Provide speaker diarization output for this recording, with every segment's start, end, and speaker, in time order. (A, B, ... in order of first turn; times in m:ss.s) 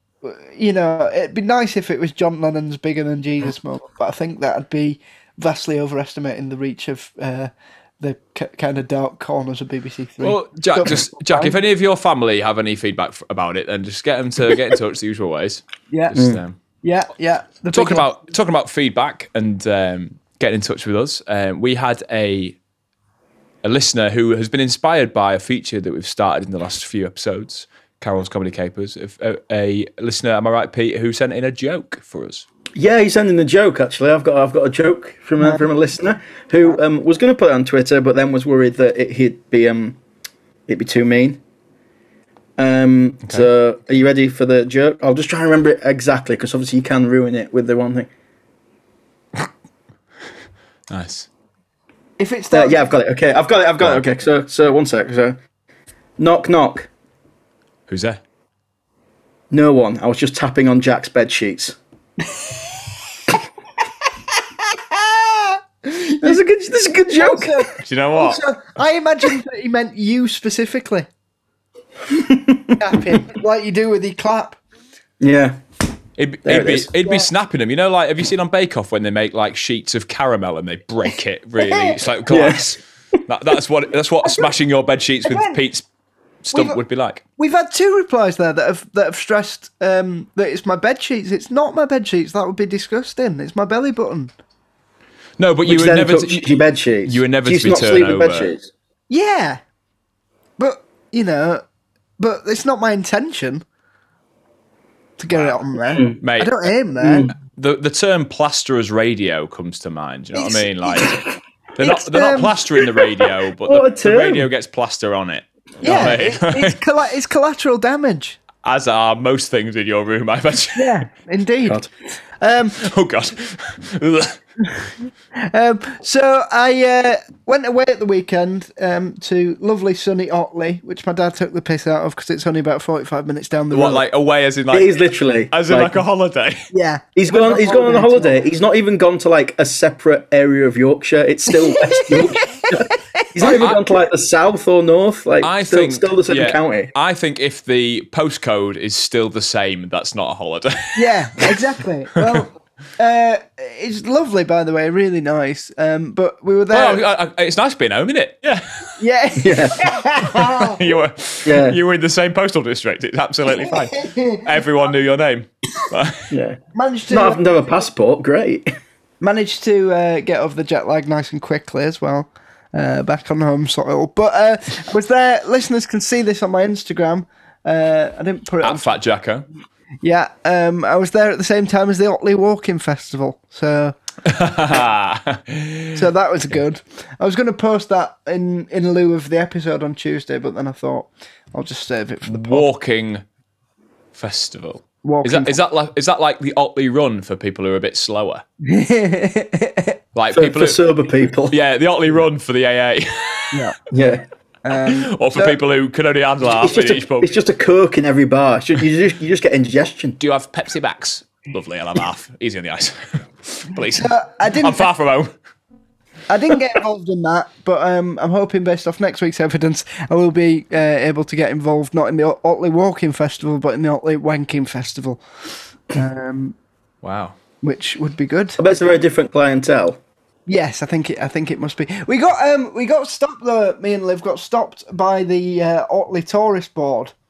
0:00.2-0:11.6 A
0:10.2-0:16.6 B
0:15.9-0:16.2 A
0:16.2-0:16.4 C
0:16.8-0:18.1 A
0:17.7-0:22.6 B
0:23.6-0:32.4 B
0:32.8-0:40.0 C
0:35.4-0:35.6 A
0:40.7-0:41.4 C
0:42.6-0:48.1 C
0:50.9-0:51.3 B
0:52.2-0:52.9 A
0:52.5-0:55.4 C
0:56.2-0:56.9 C
0:57.9-0:58.2 B
0:59.5-1:01.8 C
1:02.2-1:03.0 A
1:04.3-1:06.4 A
1:06.2-1:07.7 C
1:07.1-1:11.1 A
1:07.8-1:08.4 B
1:12.1-1:12.8 C
1:12.8-1:14.6 A
1:15.2-1:15.6 C
1:16.2-1:22.8 B
1:16.4-1:16.9 C
1:21.6-1:22.0 A
1:22.3-1:22.8 C
1:23.3-1:25.9 B
1:24.2-1:24.5 A
1:25.2-1:25.6 A
1:26.4-1:27.2 B
1:26.5-1:26.8 A
1:27.4-1:34.3 A
1:35.4-1:36.5 B
1:35.6-1:38.7 C
1:37.1-1:38.5 B
1:39.1-1:39.6 A
1:40.6-1:41.6 A
1:42.2-1:43.6 A
1:45.2-1:47.3 A
1:45.3-1:45.6 B
1:45.9-1:46.2 C
1:46.2-1:46.7 B
1:47.0-1:47.3 C
1:47.3-1:51.2 B
1:50.3-1:51.2 A
1:51.8-1:56.8 B
1:51.8-1:52.7 A
1:53.7-1:54.5 C
1:55.8-1:58.4 A
1:58.6-2:01.0 B
2:00.8-2:01.8 A
2:02.4-2:02.8 A
2:02.8-2:04.4 B
2:04.7-2:14.0 A
2:13.7-2:15.0 B
2:14.7-2:16.0 C
2:15.5-2:16.6 B
2:16.7-2:18.4 A
2:17.2-2:26.9 C
2:21.5-2:23.6 A
2:23.4-2:23.8 B
2:25.4-2:31.6 B
2:31.0-2:37.0 A
2:32.2-2:32.5 B
2:36.7-2:38.9 B
2:39.0-2:40.9 A
2:39.4-2:39.8 C
2:40.2-2:46.3 B
2:41.4-2:41.8 C
2:43.5-2:44.6 A
2:46.3-2:46.6 C
2:46.7-2:47.4 A
2:47.1-2:48.7 C
2:49.2-2:58.9 A
2:58.6-2:59.5 B
3:00.0-3:04.0 A
3:04.3-3:06.0 B
3:06.0-3:12.7 A
3:12.3-3:13.2 B
3:14.2-3:18.4 B
3:15.0-3:15.6 A
3:18.6-3:20.0 A
3:20.2-3:20.8 B
3:20.3-3:21.6 C
3:21.5-3:23.7 B
3:23.9-3:24.2 C
3:24.6-3:25.6 A
3:24.8-3:27.3 B
3:26.6-3:30.2 C
3:30.2-3:35.3 B
3:33.9-3:34.9 A
3:36.3-3:45.2 A
3:45.9-3:46.6 A
3:47.0-3:47.4 B
3:47.6-3:48.6 A
3:48.6-3:50.0 C
3:50.5-3:57.2 A